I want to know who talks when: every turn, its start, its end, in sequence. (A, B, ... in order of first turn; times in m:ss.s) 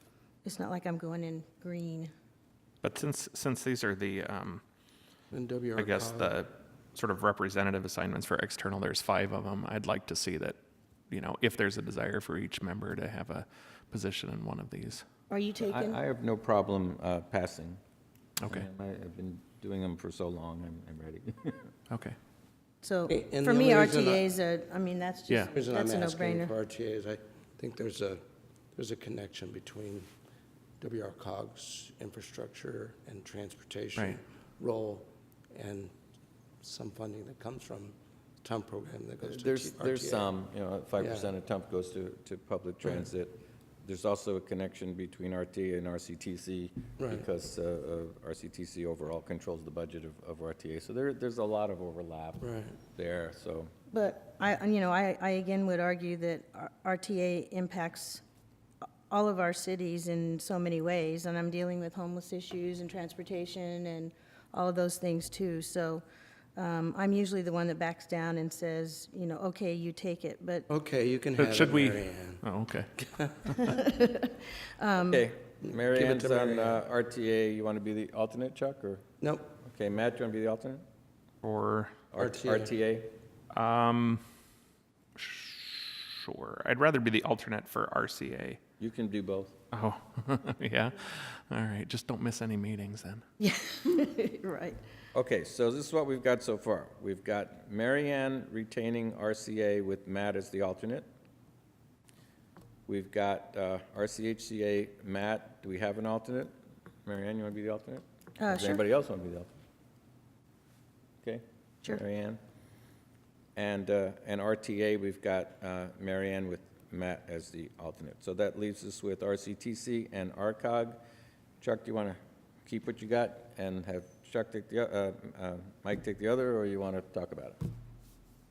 0:00.4-0:02.1 A
0:02.8-0:04.6 B
0:05.3-0:06.4 C
0:05.8-0:10.6 B
0:11.1-0:15.0 B
0:15.3-0:16.0 A
0:15.6-0:17.8 D
0:18.4-0:21.7 D
0:21.9-0:22.2 B
0:22.8-0:26.5 A
0:23.1-0:24.3 C
0:25.5-0:28.2 C
0:28.8-0:30.1 C
0:30.8-0:35.9 C
0:36.6-0:40.3 C
0:39.2-0:53.7 D
0:41.0-0:41.3 C
0:47.0-0:47.3 C
0:52.4-0:52.8 C
0:53.9-0:58.2 A
0:59.1-1:06.0 A
1:06.6-1:10.7 A
1:10.7-1:12.4 C
1:11.4-1:12.9 B
1:13.0-1:13.8 C
1:13.6-1:15.2 A
1:15.1-1:19.0 D
1:15.6-1:16.8 C
1:19.2-1:19.5 C
1:19.6-1:20.8 D
1:21.4-1:22.0 B
1:22.1-1:23.1 D
1:22.2-1:22.7 C
1:23.5-1:24.2 B
1:25.2-1:28.6 B
1:28.8-1:29.6 D
1:29.7-1:33.2 B
1:33.4-1:34.8 A
1:35.1-1:41.1 D
1:42.9-1:46.5 D
1:47.1-1:49.5 D
1:48.4-1:48.9 A
1:51.2-1:52.4 D
1:53.6-2:01.0 D
2:01.6-2:07.6 D